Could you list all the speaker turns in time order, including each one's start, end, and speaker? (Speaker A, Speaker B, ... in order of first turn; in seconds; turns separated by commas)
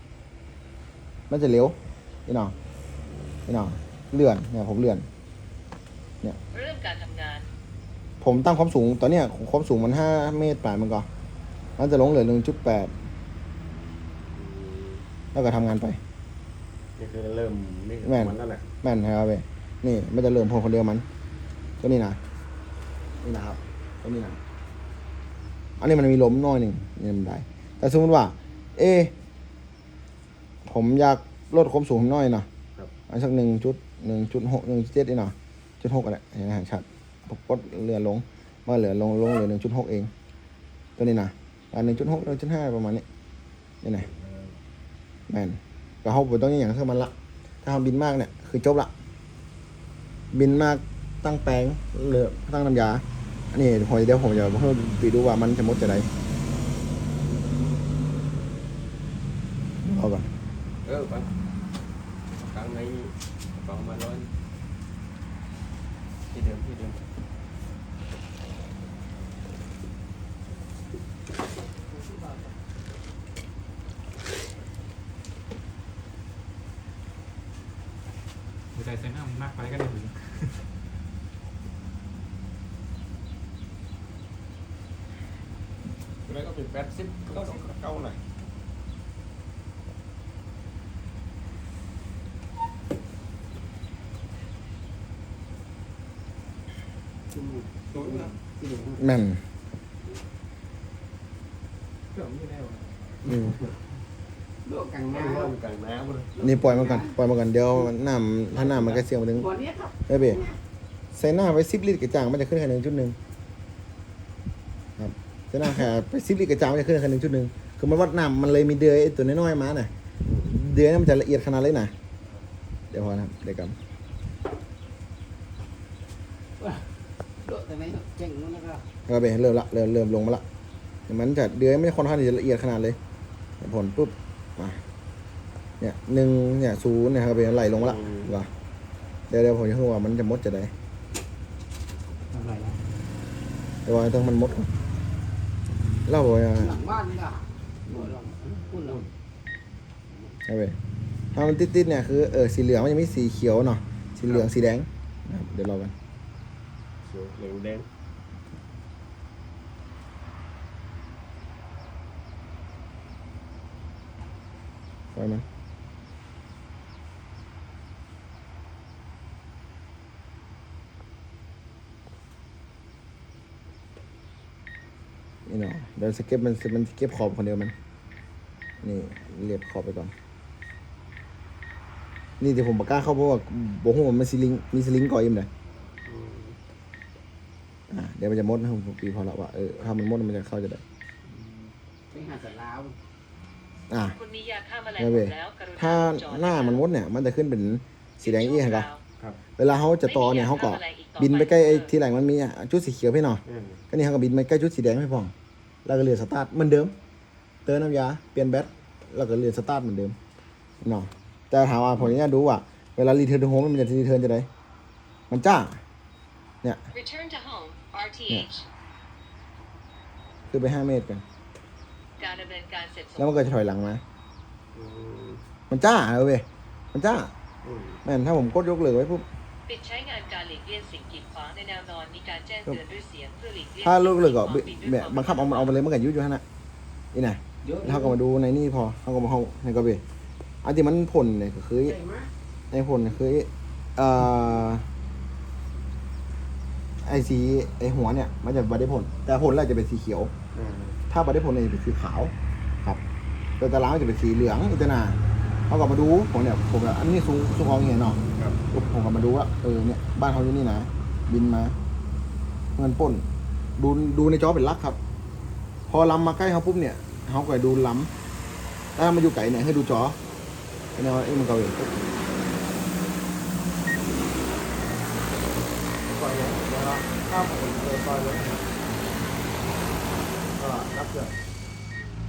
Speaker A: 1.3-1.8, Speaker A: 2.3-2.5, Speaker A: 3.5-5.1, Speaker B: 6.5-7.5, Speaker A: 8.2-11.1, Speaker A: 11.8-12.9, Speaker C: 14.3-15.0, Speaker A: 15.3-16.0, Speaker C: 17.0-18.7, Speaker A: 18.0-21.0, Speaker A: 21.8-22.2, Speaker A: 23.2-24.4, Speaker A: 25.8-29.1, Speaker A: 30.6-32.5, Speaker A: 33.1-40.1, Speaker A: 41.0-43.0, Speaker C: 41.8-42.1, Speaker A: 43.8-44.1, Speaker C: 44.1-44.5, Speaker A: 45.3-47.1, Speaker A: 47.6-48.9, Speaker A: 50.3-56.1, Speaker A: 59.8-60.3, Speaker C: 60.8-61.3, Speaker C: 62.3-64.3, Speaker C: 66.3-67.0, Speaker D: 78.7-80.6, Speaker C: 86.2-88.2, Speaker E: 97.3-99.0, Speaker C: 97.9-98.3, Speaker A: 99.0-99.4, Speaker D: 102.2-102.8, Speaker A: 103.3-103.6, Speaker C: 103.3-103.7, Speaker E: 104.6-105.5, Speaker C: 105.1-106.3, Speaker E: 106.4-107.2, Speaker A: 106.4-109.5, Speaker E: 108.6-110.5, Speaker A: 110.1-110.5, Speaker A: 111.1-113.2, Speaker A: 115.0-119.9, Speaker C: 120.2-120.5, Speaker A: 120.5-121.9, Speaker A: 122.9-123.8, Speaker E: 126.6-128.9, Speaker A: 129.1-130.4, Speaker A: 131.1-133.0, Speaker A: 133.6-134.8, Speaker A: 135.8-138.5, Speaker C: 137.7-138.3, Speaker A: 139.3-140.7, Speaker D: 142.3-142.8, Speaker A: 143.8-144.7, Speaker A: 146.1-146.8, Speaker E: 146.5-149.0, Speaker C: 148.8-149.1, Speaker A: 150.4-150.8, Speaker A: 151.3-155.9, Speaker C: 154.2-154.5, Speaker C: 157.0-157.9, Speaker A: 165.1-165.4, Speaker A: 175.4-177.7, Speaker A: 178.8-180.1, Speaker A: 182.4-185.5, Speaker C: 186.1-186.5, Speaker A: 187.9-190.8, Speaker E: 191.4-193.0, Speaker A: 193.9-194.2, Speaker B: 194.1-196.8, Speaker A: 195.0-198.9, Speaker B: 198.2-199.0, Speaker A: 199.6-205.3, Speaker B: 200.0-201.9, Speaker C: 203.4-203.8, Speaker A: 205.8-206.9, Speaker A: 207.6-210.2, Speaker A: 210.8-214.5, Speaker A: 215.3-215.8, Speaker B: 216.9-218.7, Speaker A: 220.5-221.2, Speaker B: 222.2-223.4, Speaker A: 223.2-224.0, Speaker C: 224.7-225.4, Speaker A: 225.7-227.3, Speaker C: 227.6-228.0, Speaker A: 228.0-229.2, Speaker B: 229.7-235.8, Speaker A: 233.8-236.4, Speaker A: 237.1-240.0, Speaker E: 237.6-238.2, Speaker A: 240.6-242.0, Speaker E: 241.8-242.3, Speaker A: 242.7-244.8, Speaker A: 247.0-250.3, Speaker C: 250.5-251.0, Speaker A: 251.1-253.0, Speaker A: 253.6-255.2, Speaker A: 255.7-261.8, Speaker C: 258.3-258.6, Speaker A: 262.8-263.2, Speaker A: 263.8-265.0, Speaker A: 265.9-268.1, Speaker A: 268.9-270.2, Speaker A: 270.9-271.9, Speaker A: 276.1-278.7, Speaker A: 280.6-281.3